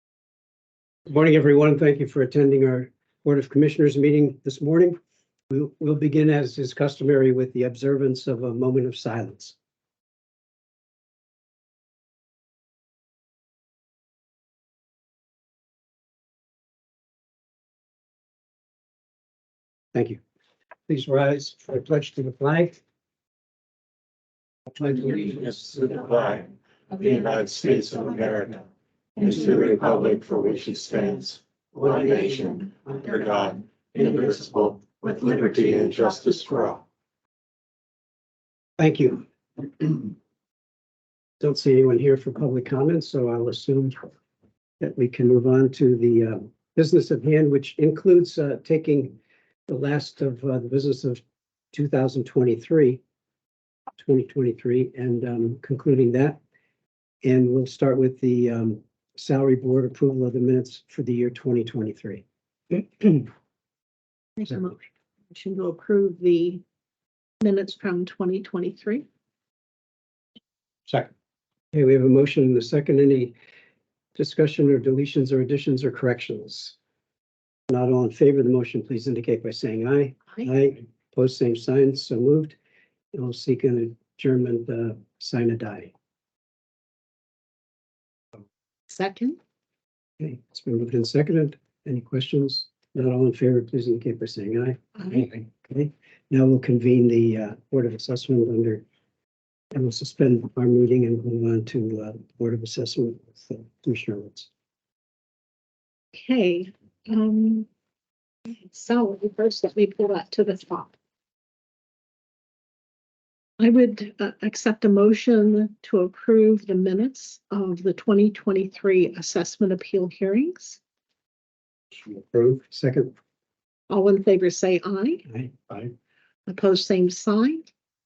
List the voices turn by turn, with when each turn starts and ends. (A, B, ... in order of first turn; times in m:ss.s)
0:01.1-0:05.0 A
0:05.5-0:09.6 A
0:19.9-0:20.2 A
0:20.9-0:22.8 A
0:24.7-0:25.9 A
0:25.5-0:28.6 B
0:29.2-0:36.8 B
0:31.8-0:32.0 A
0:38.8-0:40.1 A
0:41.4-0:44.1 A
0:44.8-0:49.2 A
0:49.7-0:51.2 A
0:51.7-0:53.0 A
0:54.0-0:56.4 A
0:57.2-1:03.3 A
1:04.4-1:06.6 C
1:07.4-1:09.0 C
1:11.7-1:13.3 A
1:14.2-1:16.8 A
1:17.7-1:22.6 A
1:23.1-1:25.9 A
1:28.9-1:29.4 C
1:30.2-1:38.8 A
1:39.7-1:44.5 A
1:46.1-1:47.7 C
1:48.5-1:50.9 C
1:53.6-2:00.8 C
2:02.0-2:03.1 A
2:03.9-2:05.2 C
2:05.3-2:05.8 A
2:06.5-2:07.7 C